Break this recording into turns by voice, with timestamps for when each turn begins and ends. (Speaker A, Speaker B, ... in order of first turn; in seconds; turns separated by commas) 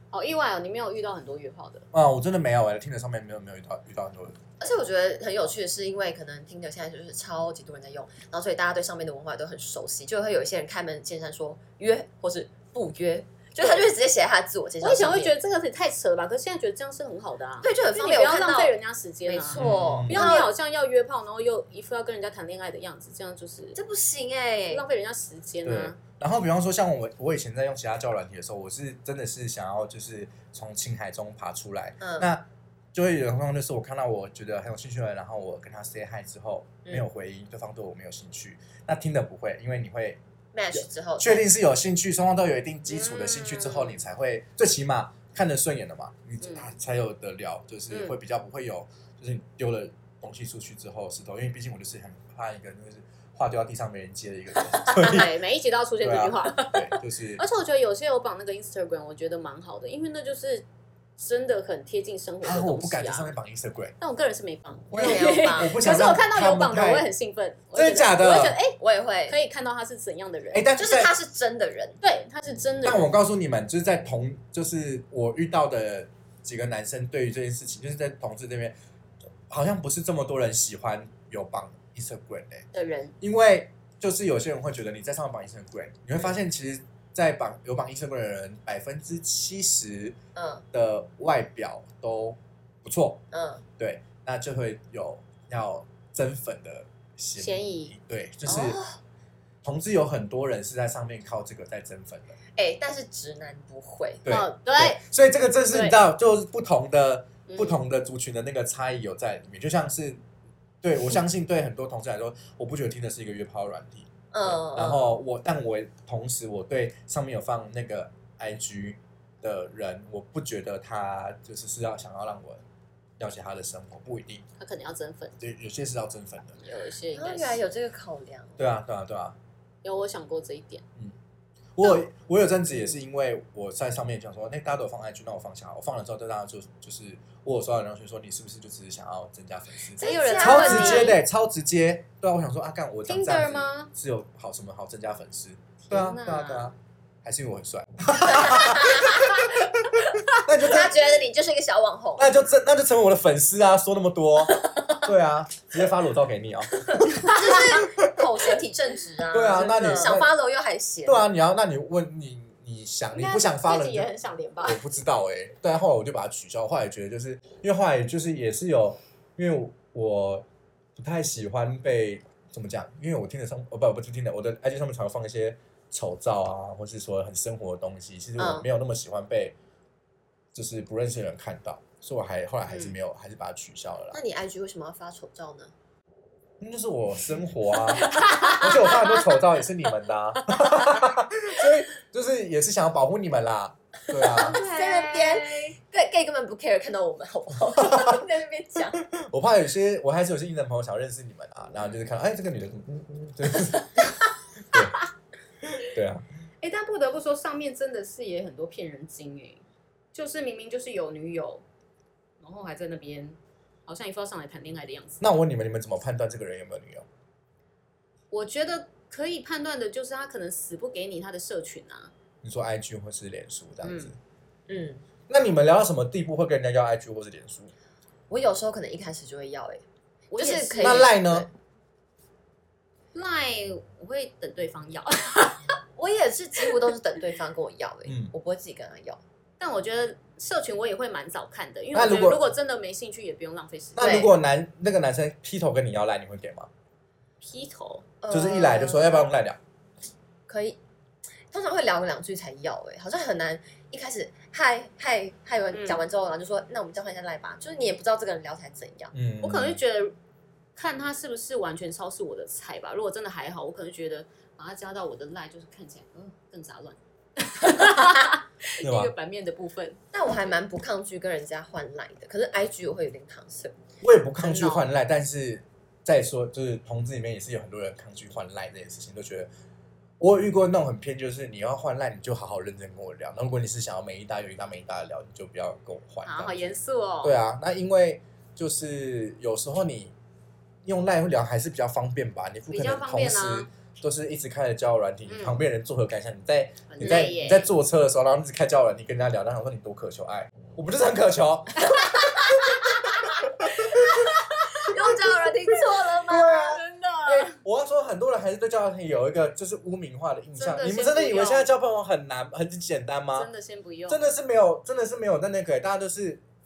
Speaker A: 0.1-1.9, Speaker B: 1.9-4.4, Speaker C: 4.6-15.3, Speaker A: 14.8-23.8, Speaker C: 17.6-18.7, Speaker C: 19.2-20.5, Speaker B: 19.6-20.3, Speaker C: 23.8-24.8, Speaker A: 24.7-26.0, Speaker B: 25.6-40.2, Speaker C: 32.0-32.3, Speaker C: 40.5-41.5, Speaker B: 40.7-55.3, Speaker A: 42.9-44.0, Speaker A: 46.4-46.7, Speaker A: 47.9-48.2, Speaker A: 54.8-60.7, Speaker B: 56.0-57.4, Speaker A: 61.2-63.3, Speaker B: 62.4-64.0, Speaker A: 64.0-70.7, Speaker B: 64.9-67.1, Speaker C: 65.0-65.8, Speaker B: 67.7-68.6, Speaker C: 68.8-69.4, Speaker B: 70.5-71.1, Speaker C: 70.8-72.0, Speaker A: 72.0-73.1, Speaker B: 72.8-78.8, Speaker B: 79.5-82.7, Speaker A: 82.7-83.2, Speaker B: 83.2-90.2, Speaker C: 90.4-90.7, Speaker B: 90.7-93.2, Speaker C: 93.3-93.7, Speaker B: 93.8-98.8, Speaker A: 97.4-98.0, Speaker C: 98.5-99.0, Speaker B: 99.6-102.4, Speaker C: 102.6-104.3, Speaker B: 104.2-110.2, Speaker A: 104.3-105.0, Speaker A: 105.7-106.0, Speaker A: 107.5-107.8, Speaker B: 110.8-122.6, Speaker C: 114.3-115.2, Speaker B: 123.2-124.5, Speaker A: 124.6-125.4, Speaker B: 125.4-126.6, Speaker A: 126.6-127.6, Speaker C: 127.2-128.6, Speaker B: 128.6-129.4, Speaker A: 129.8-130.8, Speaker B: 131.8-151.2, Speaker C: 140.0-141.2, Speaker A: 140.0-141.2, Speaker A: 143.1-143.9, Speaker A: 145.8-146.7, Speaker C: 148.3-152.5, Speaker B: 152.2-158.3, Speaker C: 154.6-155.0, Speaker C: 157.0-161.3, Speaker A: 157.1-157.6, Speaker B: 159.3-160.3, Speaker B: 161.1-164.1, Speaker A: 163.1-164.8, Speaker B: 164.6-179.6, Speaker C: 178.4-178.7, Speaker B: 180.5-184.2, Speaker C: 184.1-185.7, Speaker B: 186.6-194.6, Speaker A: 188.1-188.7, Speaker C: 194.2-199.0, Speaker A: 194.3-195.8, Speaker B: 197.8-198.2, Speaker B: 199.0-205.0, Speaker B: 205.7-206.2, Speaker A: 206.6-211.7, Speaker A: 212.4-215.2, Speaker B: 215.2-217.1, Speaker A: 218.3-222.1, Speaker B: 222.4-224.2, Speaker A: 223.8-224.2, Speaker C: 224.7-225.0, Speaker B: 225.3-227.7, Speaker C: 228.3-229.8, Speaker A: 230.3-231.1, Speaker C: 230.4-231.5, Speaker B: 230.8-231.5, Speaker A: 233.1-235.6, Speaker C: 236.0-239.2, Speaker B: 238.1-238.3, Speaker A: 239.6-244.3, Speaker B: 241.9-242.4, Speaker B: 244.0-246.7, Speaker C: 244.0-244.3, Speaker A: 247.4-248.1, Speaker C: 248.2-249.3, Speaker B: 248.3-249.6, Speaker C: 250.5-250.8, Speaker C: 251.5-259.1, Speaker A: 255.7-256.0, Speaker B: 259.1-259.8, Speaker A: 259.4-260.1, Speaker A: 260.8-270.0, Speaker B: 268.8-269.1, Speaker C: 270.1-273.8, Speaker B: 274.0-279.5, Speaker C: 274.4-274.9, Speaker B: 280.2-290.1, Speaker A: 286.2-287.4, Speaker B: 290.8-301.9, Speaker A: 292.7-293.7, Speaker A: 295.3-295.6, Speaker A: 296.9-297.7, Speaker C: 302.0-302.6, Speaker B: 303.6-304.1, Speaker C: 303.8-306.8, Speaker A: 304.2-305.2, Speaker B: 306.2-313.5, Speaker A: 306.4-307.6, Speaker A: 310.6-311.7, Speaker A: 313.3-314.2, Speaker B: 314.1-316.4